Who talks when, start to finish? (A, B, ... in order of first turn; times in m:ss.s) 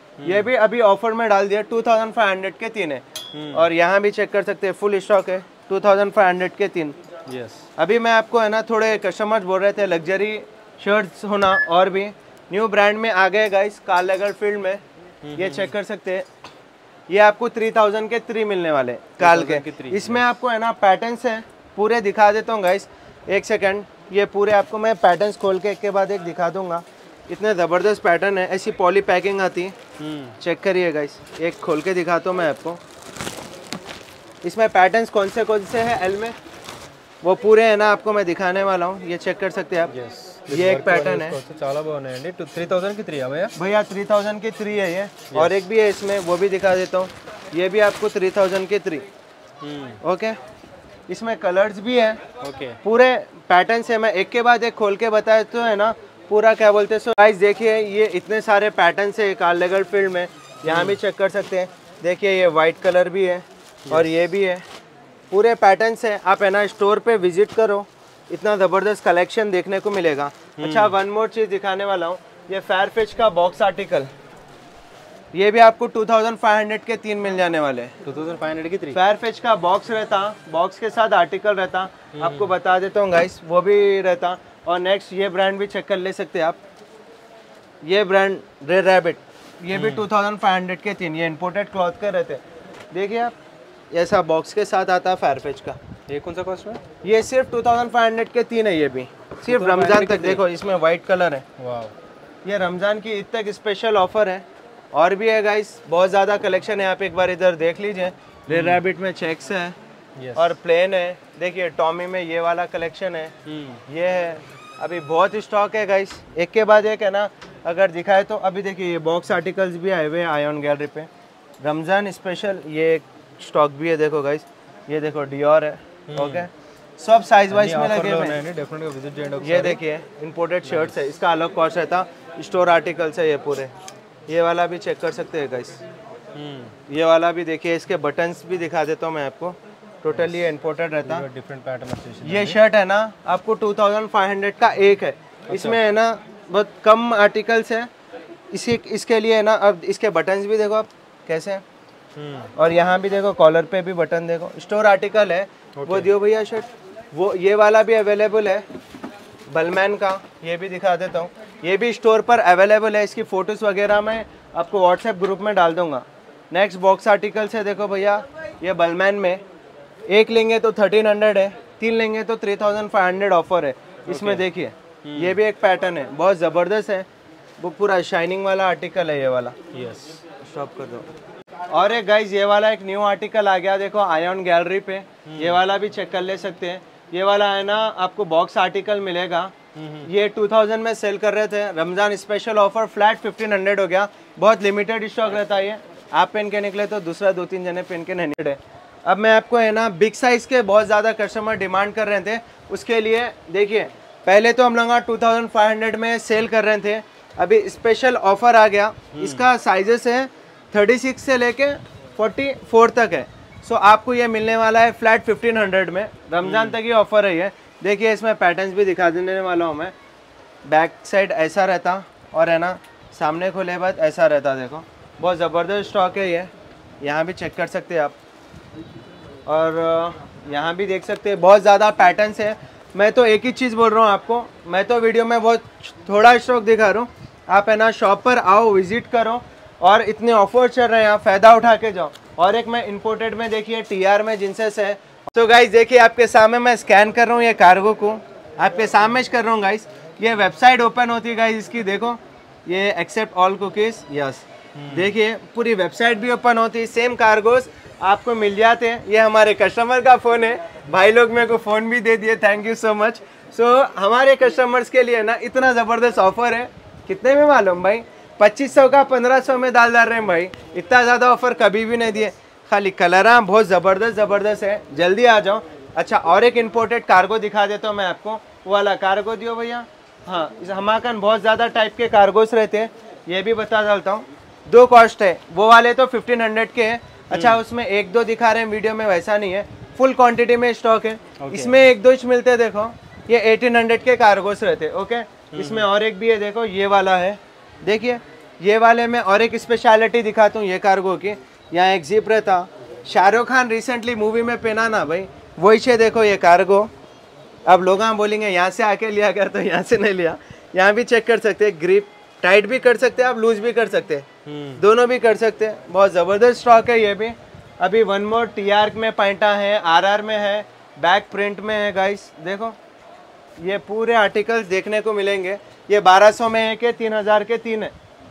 0:00.2-0:00.5 A
0:00.2-0:07.0 B
0:03.3-0:03.7 A
0:07.3-0:07.6 A
0:07.8-0:14.8 B
0:15.2-0:15.7 A
0:15.4-0:16.3 B
0:17.1-0:29.8 B
0:19.2-0:20.2 A
0:30.0-0:30.4 A
0:30.4-0:32.8 B
0:34.4-0:36.4 B
0:37.2-0:39.9 B
0:39.9-0:43.5 A
0:40.5-0:41.4 B
0:43.6-0:49.0 B
0:45.3-0:45.6 A
0:49.6-0:50.0 A
0:50.0-0:50.4 B
0:51.1-0:52.2 B
0:52.4-0:52.8 A
0:52.8-1:04.6 B
1:00.6-1:01.0 A
1:03.9-1:04.2 A
1:05.3-1:14.1 B
1:10.6-1:11.0 A
1:15.3-1:17.9 B
1:18.0-1:19.0 A
1:18.9-1:26.6 B
1:22.1-1:22.5 A
1:27.8-1:32.4 B
1:29.7-1:30.1 A
1:32.9-1:33.3 B
1:33.9-1:35.8 B
1:36.1-1:36.8 A
1:37.0-1:41.4 B
1:39.4-1:40.5 A
1:41.6-1:41.9 A
1:42.4-1:49.8 B
1:48.5-1:48.8 A
1:50.2-1:50.6 A
1:50.4-1:53.3 B
1:53.5-1:53.8 A
1:53.9-2:01.1 B
2:01.6-2:08.4 B
2:06.1-2:06.5 A
2:07.5-2:09.8 A
2:09.4-2:13.7 B
2:10.6-2:11.0 A
2:14.3-2:15.8 B
2:16.4-2:16.8 A
2:16.9-2:21.2 B
2:20.1-2:20.4 A
2:21.0-2:22.6 A
2:22.2-2:27.9 B
2:25.5-2:25.8 A
2:28.5-2:31.6 B
2:32.2-2:32.5 A
2:32.6-2:38.6 B
2:35.8-2:36.1 A
2:39.5-2:49.4 B
2:50.1-2:57.1 B
2:54.1-2:54.5 A
2:55.0-2:55.4 A
2:57.6-2:59.6 B
2:59.7-3:00.2 A
3:00.4-3:01.1 B
3:01.7-3:09.5 B
3:05.3-3:05.6 A
3:09.8-3:10.1 A
3:10.1-3:39.9 B
3:29.1-3:29.5 A
3:36.4-3:36.8 A
3:40.6-3:46.5 B
3:47.0-3:48.2 B
3:49.5-5:06.9 B
4:14.8-4:15.1 A
4:47.3-4:47.6 A
4:51.4-4:51.8 A
4:55.5-4:55.9 A
5:07.7-5:14.3 B
5:14.4-5:14.8 A
5:14.8-5:22.8 B
5:23.6-5:27.9 B